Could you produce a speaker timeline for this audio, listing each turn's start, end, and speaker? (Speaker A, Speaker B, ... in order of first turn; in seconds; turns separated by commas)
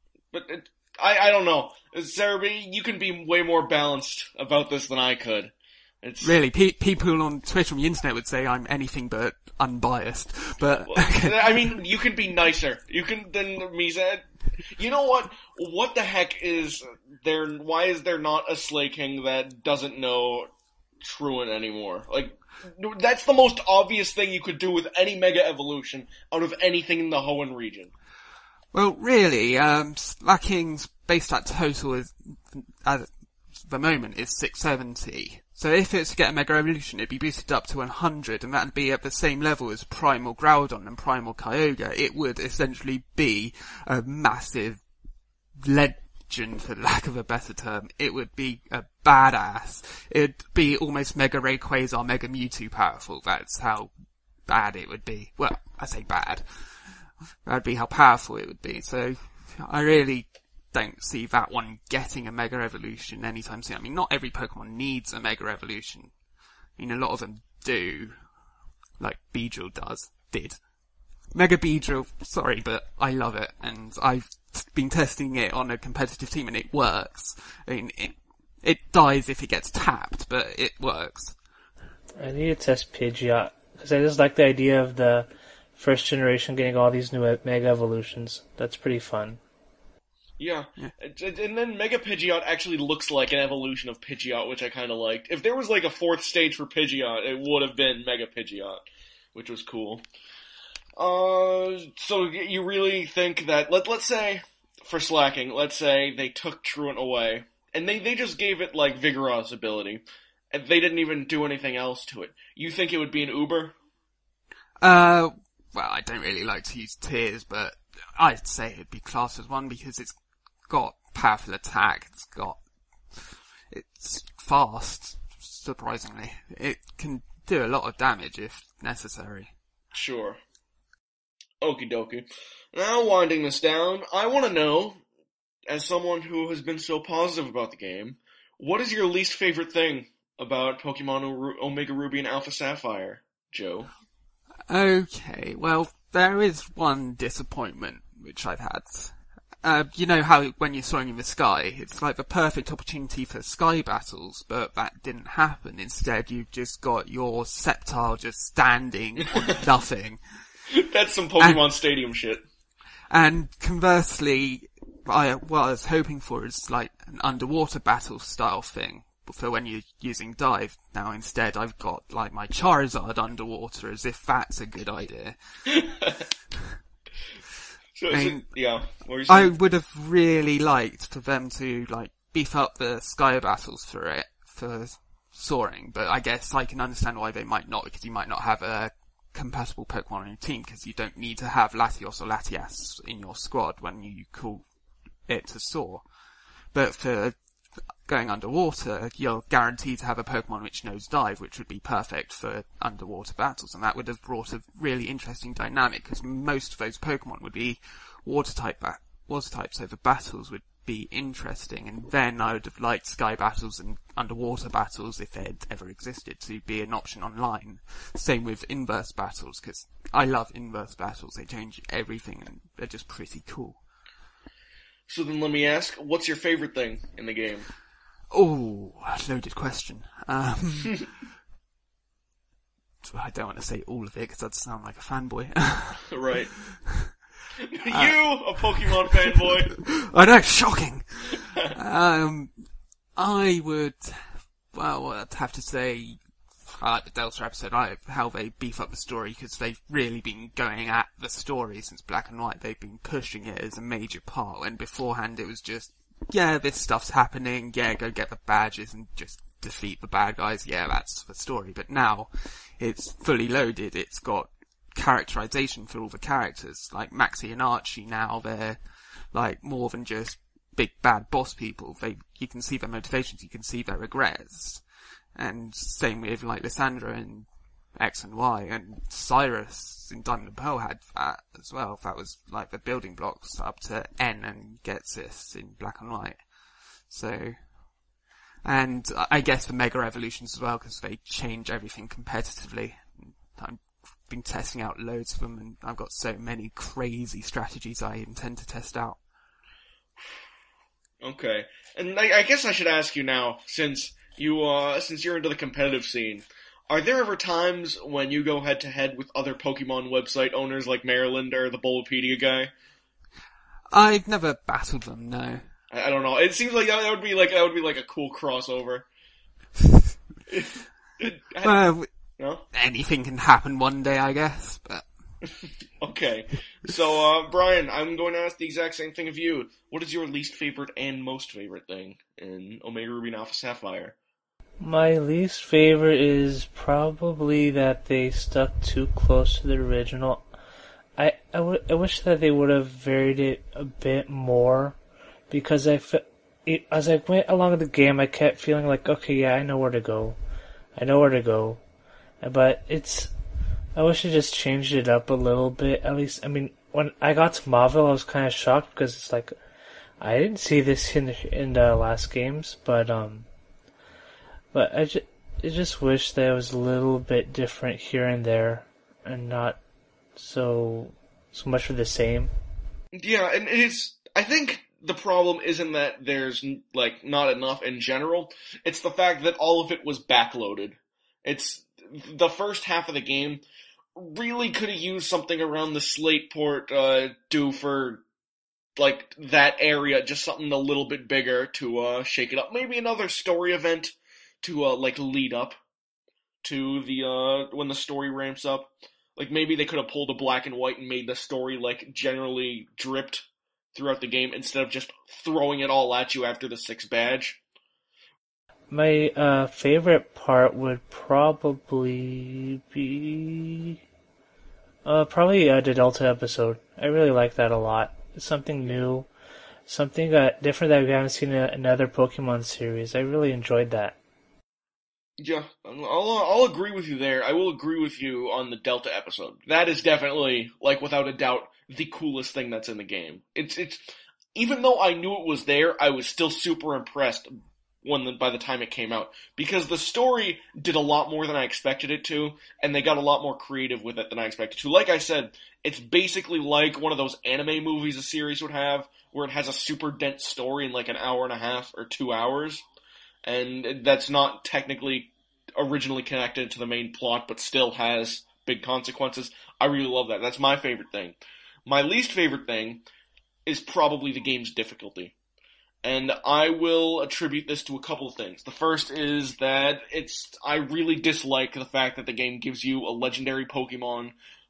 Speaker A: 0.3-6.4, Speaker B: 6.2-11.8, Speaker A: 10.9-20.5, Speaker A: 21.0-27.9, Speaker B: 28.7-44.8, Speaker B: 45.6-68.4, Speaker B: 69.0-70.7, Speaker B: 71.3-81.4, Speaker C: 82.2-89.4, Speaker A: 90.4-98.8, Speaker A: 99.3-100.0, Speaker A: 101.0-113.8, Speaker B: 114.8-129.5, Speaker A: 129.9-130.4, Speaker A: 131.6-135.0, Speaker A: 135.7-143.9, Speaker B: 144.7-160.5, Speaker A: 160.8-162.4, Speaker B: 163.1-175.4, Speaker A: 175.7-176.2, Speaker A: 177.9-179.5, Speaker B: 178.1-178.7, Speaker B: 179.3-196.1, Speaker B: 196.7-223.8, Speaker A: 225.1-227.7, Speaker B: 228.3-230.9, Speaker B: 233.0-237.2, Speaker A: 236.1-236.5, Speaker A: 237.7-239.7, Speaker B: 237.9-287.9, Speaker B: 288.6-299.2, Speaker A: 301.2-312.7, Speaker B: 313.9-315.7, Speaker A: 315.9-319.1, Speaker A: 320.5-321.8, Speaker B: 321.6-325.1, Speaker A: 322.4-322.6, Speaker A: 326.0-334.1, Speaker C: 334.8-340.5, Speaker C: 341.2-345.0, Speaker C: 345.5-350.4, Speaker C: 350.9-351.8, Speaker C: 352.4-353.3, Speaker C: 353.9-359.5, Speaker C: 360.2-363.5, Speaker C: 364.7-369.8, Speaker C: 370.4-372.5, Speaker A: 373.1-383.6, Speaker A: 384.2-388.2, Speaker A: 389.0-395.8, Speaker A: 396.6-407.6, Speaker C: 408.9-414.0, Speaker C: 415.1-419.3, Speaker C: 419.9-424.2, Speaker A: 425.4-434.0, Speaker A: 434.6-452.8, Speaker A: 453.4-463.0, Speaker A: 463.7-465.3, Speaker A: 466.0-474.4